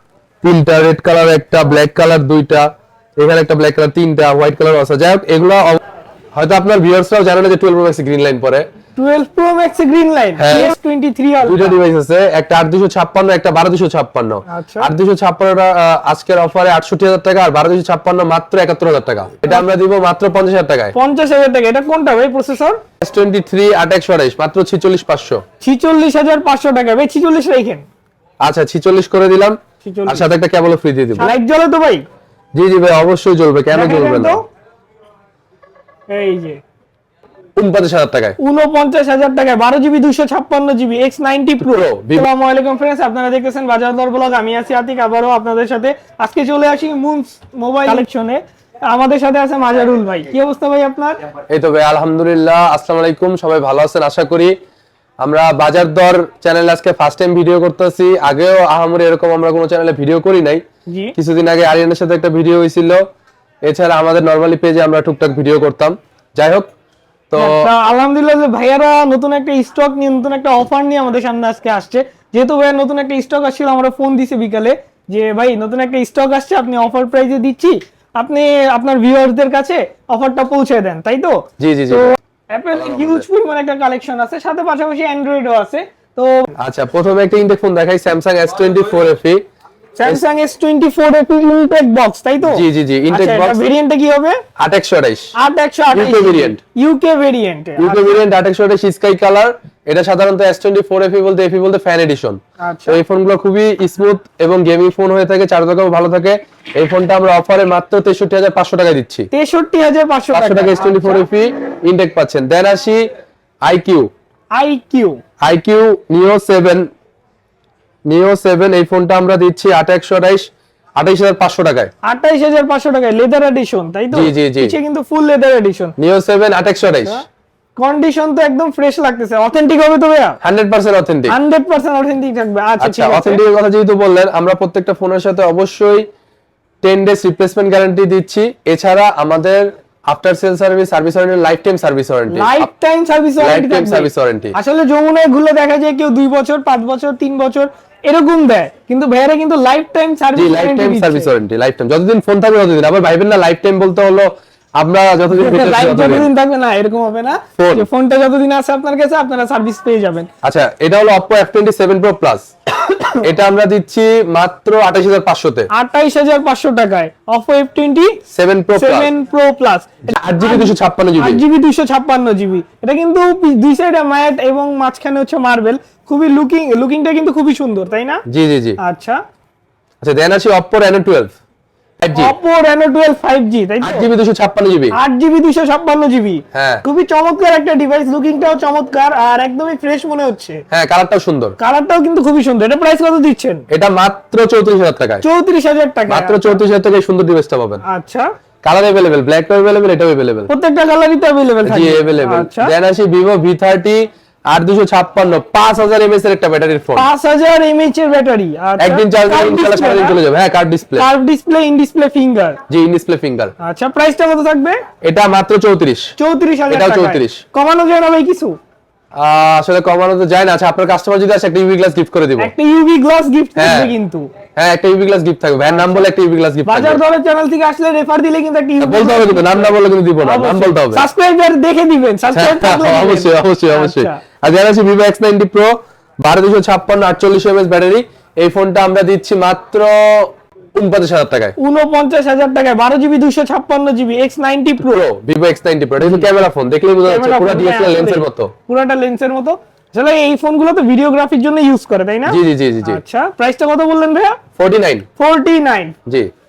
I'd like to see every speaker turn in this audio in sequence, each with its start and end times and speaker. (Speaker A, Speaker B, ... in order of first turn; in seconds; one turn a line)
Speaker A: 0.4-5.8
Speaker A: 6.3-8.7
Speaker B: 8.9-11.8
Speaker A: 10.4-10.7
Speaker A: 11.4-20.9
Speaker B: 14.5-14.9
Speaker B: 20.9-22.8
Speaker A: 23.0-25.4
Speaker B: 25.6-27.8
Speaker A: 28.4-31.3
Speaker B: 29.8-30.2
Speaker B: 31.1-32.0
Speaker A: 32.5-34.4
Speaker B: 33.7-34.4
Speaker B: 36.1-36.6
Speaker A: 37.5-38.4
Speaker B: 38.4-51.2
Speaker A: 41.6-42.3
Speaker A: 51.5-54.5
Speaker A: 55.2-60.6
Speaker B: 60.9-61.1
Speaker A: 61.2-63.0
Speaker A: 63.6-66.7
Speaker A: 67.3-67.7
Speaker B: 67.3-86.5
Speaker A: 81.6-82.1
Speaker A: 82.7-83.2
Speaker A: 86.6-89.4
Speaker B: 90.0-94.4
Speaker A: 92.4-93.6
Speaker A: 94.6-95.3
Speaker B: 95.3-98.2
Speaker A: 95.9-96.6
Speaker A: 97.8-109.3
Speaker B: 102.6-103.0
Speaker B: 109.3-111.3
Speaker A: 110.3-113.0
Speaker A: 113.6-114.1
Speaker B: 114.5-115.2
Speaker A: 115.4-116.9
Speaker A: 118.1-121.9
Speaker B: 122.0-125.9
Speaker A: 124.1-124.8
Speaker A: 126.0-127.2
Speaker B: 127.8-130.4
Speaker A: 130.4-131.3
Speaker B: 131.3-133.4
Speaker A: 132.8-136.1
Speaker A: 136.8-142.7
Speaker B: 142.3-151.3
Speaker A: 143.4-144.5
Speaker A: 150.3-156.3
Speaker B: 155.3-160.3
Speaker A: 157.6-157.9
Speaker A: 160.4-162.5
Speaker B: 162.9-163.2
Speaker A: 163.1-165.7
Speaker B: 165.7-168.2
Speaker A: 168.3-169.1
Speaker B: 168.8-178.2
Speaker A: 170.1-171.4
Speaker A: 178.3-178.8
Speaker B: 178.8-179.2
Speaker A: 180.0-181.3
Speaker A: 182.0-182.3
Speaker B: 182.1-184.1
Speaker A: 183.8-184.9
Speaker B: 184.9-190.6
Speaker A: 186.5-186.8
Speaker A: 190.7-191.6
Speaker B: 191.6-193.7
Speaker A: 193.7-195.2
Speaker B: 195.2-196.6
Speaker A: 196.1-197.8
Speaker B: 197.8-198.3
Speaker A: 198.6-200.5
Speaker B: 200.5-202.7
Speaker A: 201.7-207.1
Speaker B: 206.9-210.2
Speaker A: 208.8-211.1
Speaker B: 211.0-212.6
Speaker A: 212.7-213.5
Speaker B: 213.6-214.8
Speaker A: 215.0-216.1
Speaker B: 216.2-218.6
Speaker A: 216.7-217.4
Speaker A: 219.2-222.5
Speaker B: 222.4-224.3
Speaker A: 223.6-223.9
Speaker A: 224.6-227.0
Speaker B: 225.7-226.1
Speaker B: 226.6-234.2
Speaker A: 228.8-231.1
Speaker A: 232.3-241.6
Speaker B: 241.6-245.0
Speaker A: 244.8-248.5
Speaker B: 246.0-246.3
Speaker B: 247.0-254.4
Speaker A: 252.2-253.0
Speaker A: 254.6-255.1
Speaker B: 255.2-255.9